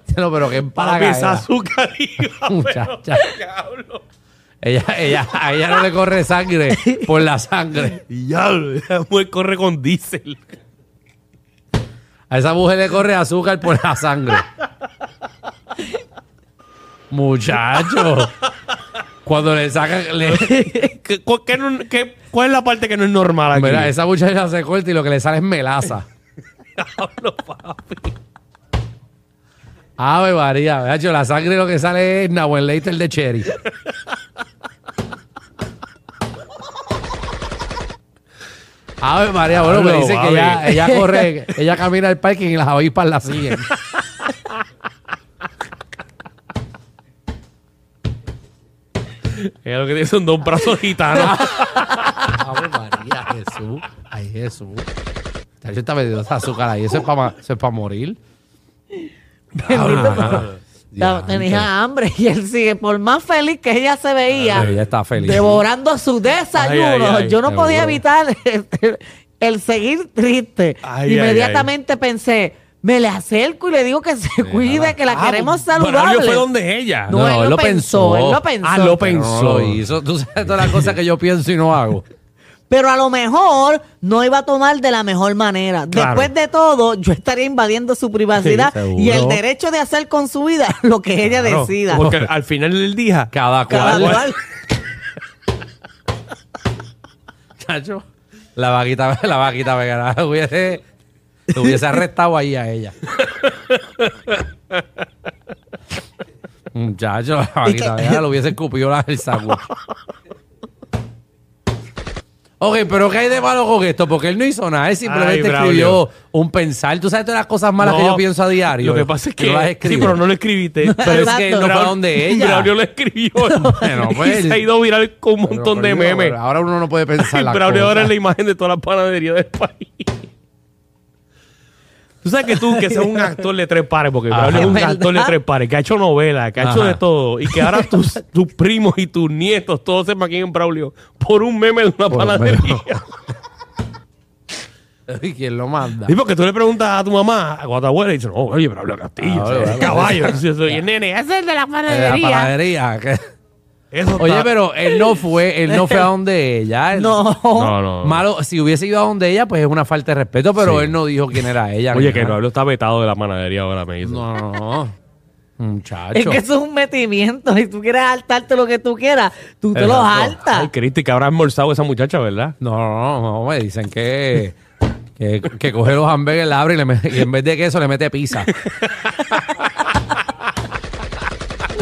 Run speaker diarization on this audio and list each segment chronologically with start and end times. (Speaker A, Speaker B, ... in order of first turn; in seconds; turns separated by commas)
Speaker A: 0.1-1.5, Speaker B: 0.5-4.0, Speaker A: 2.4-3.3, Speaker A: 4.6-8.0, Speaker C: 6.8-7.1, Speaker B: 7.9-10.6, Speaker A: 12.3-14.4, Speaker A: 17.1-18.3, Speaker B: 17.8-18.3, Speaker A: 19.2-20.7, Speaker B: 20.2-23.9, Speaker A: 23.5-26.1, Speaker B: 26.8-28.1, Speaker A: 30.0-33.5, Speaker A: 39.0-43.7, Speaker B: 39.5-41.2, Speaker B: 49.3-52.3, Speaker A: 51.1-54.9, Speaker A: 55.6-58.2, Speaker C: 59.6-76.4, Speaker B: 59.6-60.6, Speaker A: 59.6-61.7, Speaker B: 64.3-65.5, Speaker A: 64.5-65.6, Speaker B: 66.5-67.4, Speaker A: 67.4-68.0, Speaker B: 70.8-71.7, Speaker A: 74.4-75.0, Speaker B: 75.0-77.2, Speaker C: 77.1-78.9, Speaker A: 77.1-82.0, Speaker B: 78.6-79.8, Speaker B: 80.6-80.9, Speaker C: 82.7-92.0, Speaker B: 85.9-86.3, Speaker B: 88.4-88.7, Speaker A: 88.7-89.4, Speaker B: 91.2-94.3, Speaker A: 91.9-92.3, Speaker A: 93.3-94.3, Speaker C: 93.7-94.4, Speaker A: 97.6-98.0, Speaker A: 98.5-100.8, Speaker A: 101.5-103.0, Speaker B: 103.2-104.8, Speaker A: 106.7-109.6, Speaker A: 112.6-120.2, Speaker B: 115.0-116.0, Speaker B: 117.8-126.4, Speaker C: 120.8-121.8, Speaker A: 121.0-122.7, Speaker C: 123.5-123.9, Speaker A: 123.5-124.6, Speaker A: 125.5-128.1, Speaker B: 127.2-130.3, Speaker B: 132.2-143.2, Speaker A: 134.3-134.9, Speaker C: 134.5-135.3, Speaker A: 136.6-137.0, Speaker A: 142.1-142.8, Speaker A: 145.1-146.1, Speaker B: 146.0-152.2, Speaker A: 149.2-150.8, Speaker A: 151.9-153.2, Speaker C: 152.1-152.5, Speaker B: 153.9-155.1, Speaker A: 154.2-157.2, Speaker C: 155.7-156.1, Speaker C: 156.9-157.8, Speaker B: 157.5-158.2, Speaker A: 158.0-162.4, Speaker B: 160.6-161.0, Speaker B: 161.9-164.3, Speaker A: 164.0-164.9, Speaker A: 165.6-166.4, Speaker C: 166.1-170.7, Speaker A: 169.7-170.3, Speaker B: 169.9-172.5, Speaker A: 172.6-174.6, Speaker A: 175.2-178.6, Speaker B: 178.7-179.7